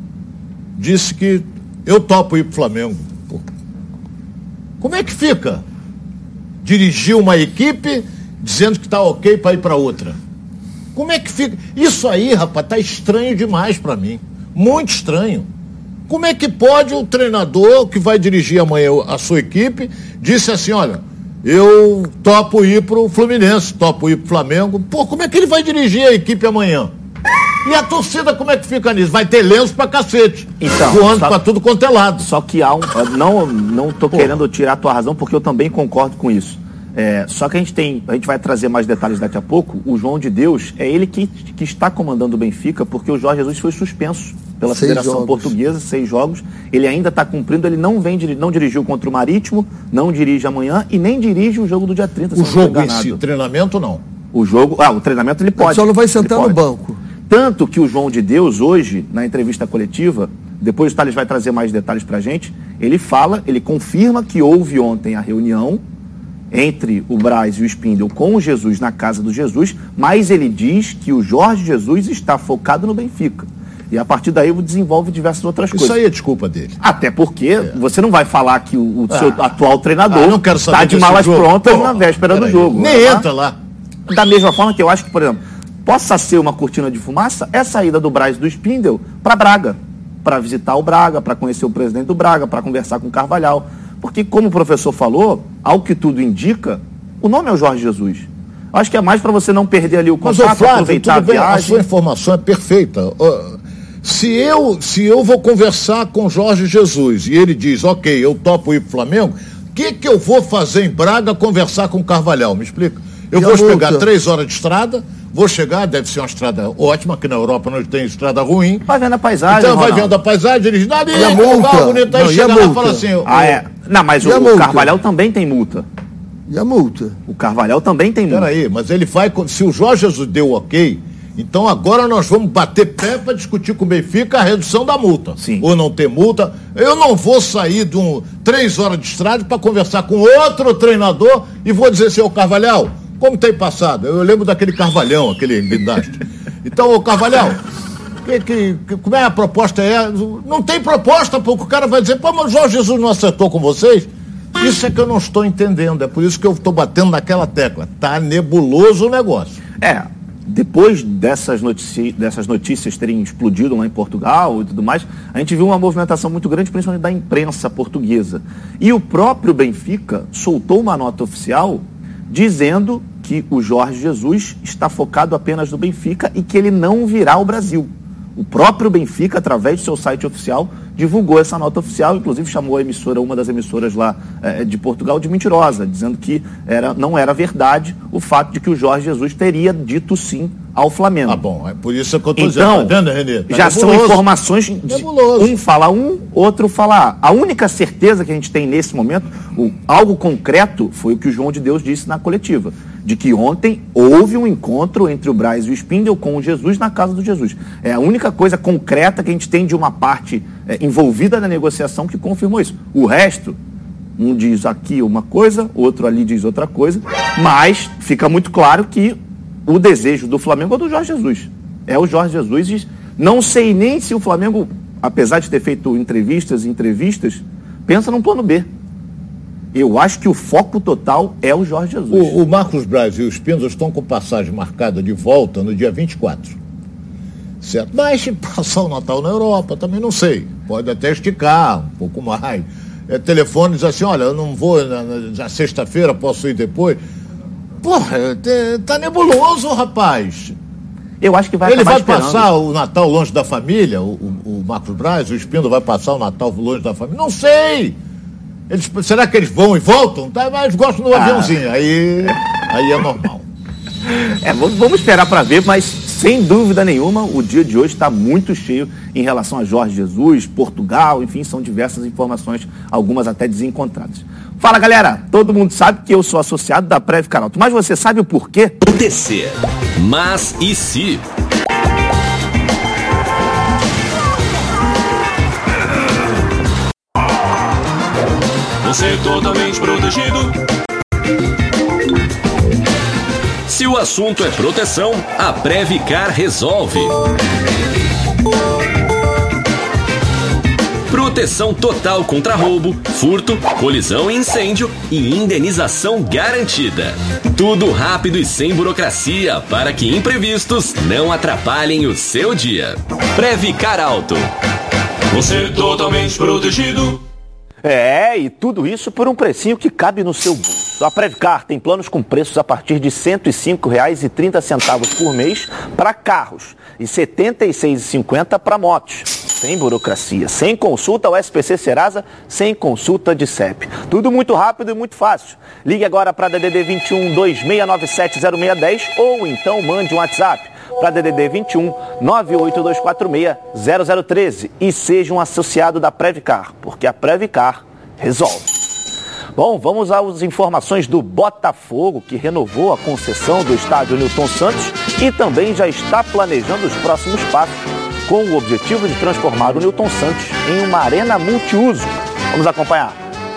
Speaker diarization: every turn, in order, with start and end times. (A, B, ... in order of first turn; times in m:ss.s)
0:00.8-0:03.4 A
0:04.8-0:05.6 A
0:06.6-0:10.2 A
0:10.9-0:15.5 A
0:16.1-0:26.9 A
0:27.6-0:32.2 A
0:30.6-0:31.4 B
0:32.2-0:53.2 B
0:44.6-0:45.5 C
0:52.3-0:54.0 A
0:54.3-0:56.6 B
0:55.6-0:57.0 C
0:57.3-1:05.8 B
1:06.5-1:16.0 B
1:15.7-1:16.8 A
1:16.8-1:23.3 B
1:19.1-1:19.4 A
1:20.1-1:23.6 A
1:24.1-1:41.8 B
1:40.2-1:58.9 A
1:53.4-1:54.0 C
1:58.9-2:00.1 B
1:59.5-2:03.6 A
2:01.1-2:03.4 C
2:03.2-2:05.8 B
2:04.2-2:05.0 C
2:06.5-2:07.2 C
2:07.3-2:08.5 B
2:08.3-2:27.6 A
2:15.4-2:15.6 B
2:28.2-2:39.6 A
2:39.8-3:11.4 B
3:11.3-3:14.2 A
3:12.3-3:13.0 B
3:13.5-3:33.6 B
3:14.9-3:15.6 A
3:34.2-3:48.7 B
3:49.7-3:52.3 B
3:52.1-3:56.6 A
3:57.6-4:07.0 A
4:07.8-4:10.6 A
4:11.2-4:12.5 B
4:11.6-4:18.0 A
4:18.7-4:23.4 A
4:21.1-4:21.5 B
4:24.1-4:38.8 B
4:38.8-4:41.2 D
4:48.8-4:50.6 D
4:53.7-4:57.2 D
5:01.1-5:14.5 D
5:15.3-5:17.2 D
5:17.8-5:48.7 B
5:49.6-6:03.2 B